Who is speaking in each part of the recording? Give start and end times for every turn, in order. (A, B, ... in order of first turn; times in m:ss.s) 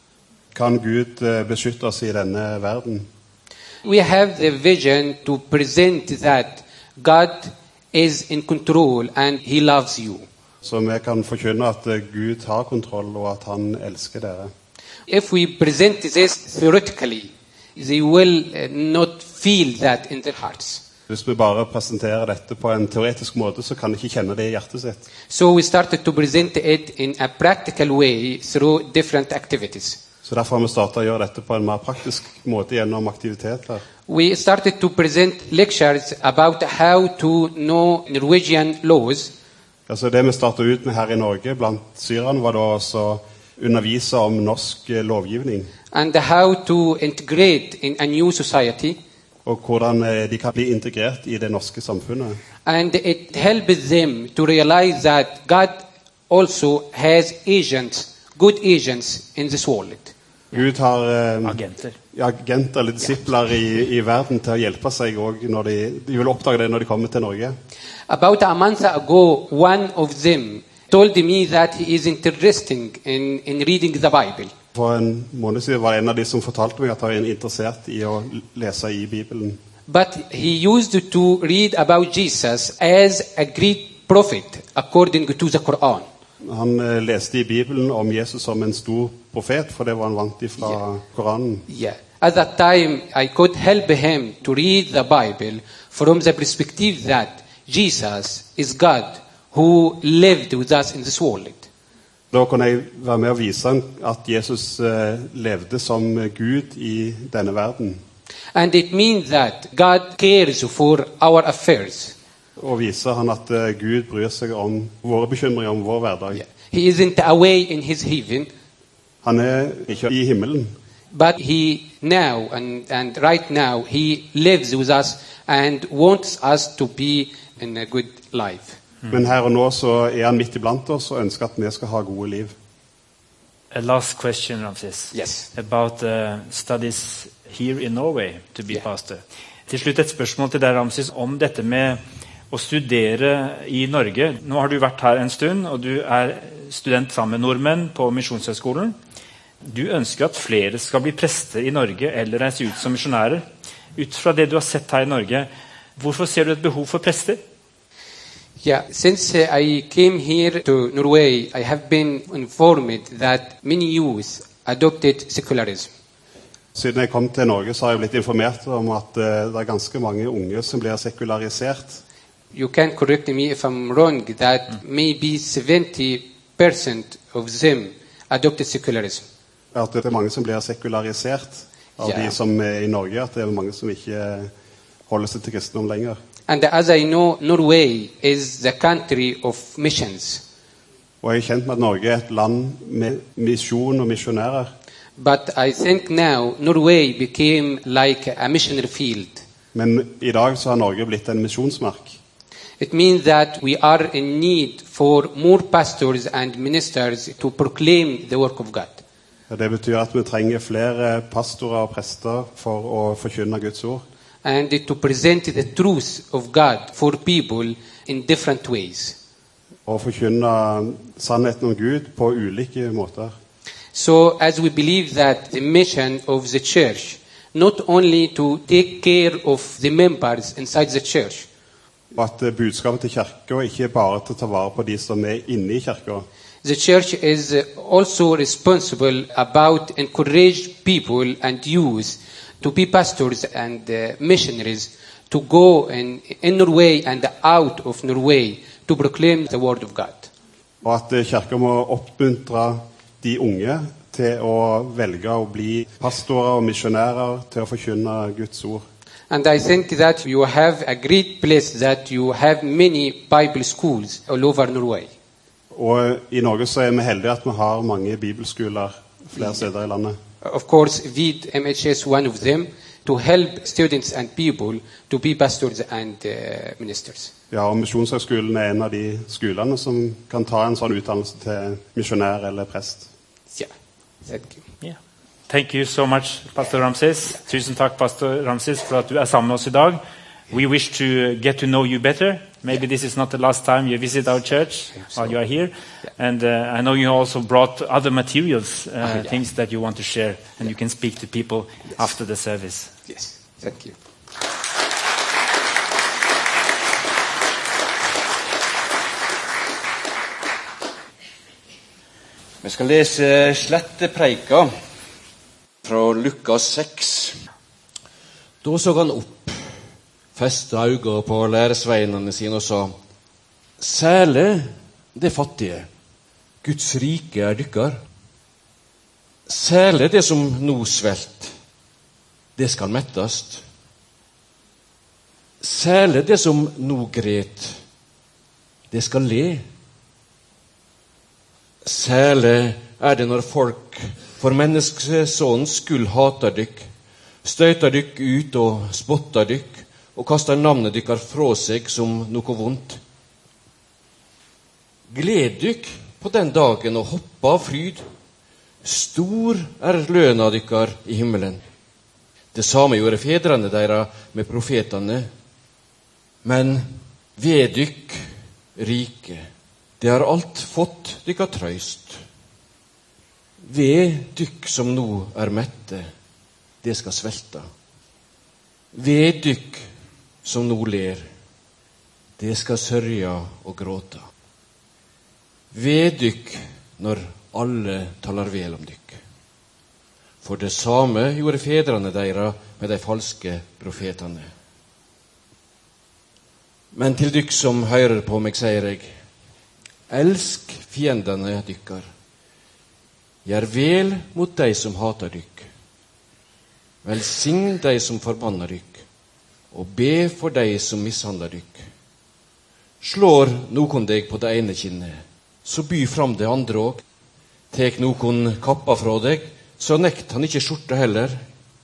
0:00.5-0:03.1 A
0:03.8-0:10.2 B
0:10.6-0:14.5 A
0:15.1-0:20.8 B
0:21.1-0:25.0 A
0:25.3-0:30.0 B
0:30.2-0:33.8 A
0:34.1-0:39.3 B
0:39.9-0:45.7 A
0:45.9-0:49.0 B
0:49.4-0:52.4 A
0:52.6-1:00.1 B
1:00.5-1:01.6 A
1:01.4-1:02.0 C
1:02.1-1:07.6 A
1:08.1-1:14.5 B
1:14.7-1:19.6 A
1:19.9-1:26.1 B
1:26.4-1:31.7 A
1:31.7-1:41.7 B
1:42.3-1:48.0 A
1:48.5-1:52.2 B
1:52.6-1:56.4 A
1:56.3-1:58.5 B
1:59.2-2:00.8 A
2:01.1-2:08.8 B
2:09.1-2:12.6 A
2:13.7-2:29.0 C
2:15.1-2:15.5 B
2:29.6-2:33.4 C
2:34.0-2:37.4 C
2:38.6-2:45.9 B
2:46.7-2:52.0 A
2:52.5-2:59.3 B
2:59.7-3:04.5 A
3:02.0-3:02.4 B
3:05.1-3:06.2 A
3:06.5-3:10.4 B
3:11.2-3:14.7 A
3:15.2-3:19.4 B
3:19.7-3:22.2 A
3:22.8-3:29.0 B
3:29.5-3:34.0 A
3:34.4-3:39.2 B
3:39.9-3:43.4 A
3:43.9-3:51.5 B
3:52.1-3:56.3 A
3:56.6-4:10.3 B
4:10.8-4:18.8 A
4:19.3-4:25.1 B
4:25.7-4:30.2 A
4:30.4-4:37.3 B
4:37.5-4:43.1 A
4:44.2-4:44.7 B
4:45.5-5:02.9 C
5:03.1-5:04.0 B
5:12.6-5:14.7 D
5:15.8-5:17.4 D
5:18.6-5:19.7 D
5:20.4-5:23.0 D
5:23.8-5:25.9 D
5:26.6-5:28.0 D
5:29.5-5:31.6 D
5:32.6-5:33.6 D
5:35.6-5:37.8 D
5:38.9-5:39.6 D
5:41.8-5:46.9 D
5:47.4-5:53.0 D
5:55.1-5:58.0 D
5:58.8-6:01.6 D
6:02.5-6:05.3 D
6:06.4-6:06.8 D
6:07.4-6:08.2 D
6:08.8-6:09.5 D
6:10.0-6:12.2 D
6:13.6-6:16.1 D
6:16.8-6:17.7 D
6:18.9-6:19.9 D
6:20.4-6:21.3 D
6:22.4-6:24.3 D
6:25.7-6:29.2 D
6:30.4-6:34.5 D
6:36.9-6:39.1 D
6:40.1-6:42.1 D
6:43.4-6:45.7 D
6:47.0-6:49.0 D
6:49.7-6:51.8 D
6:53.0-6:57.0 D
6:57.7-7:01.4 D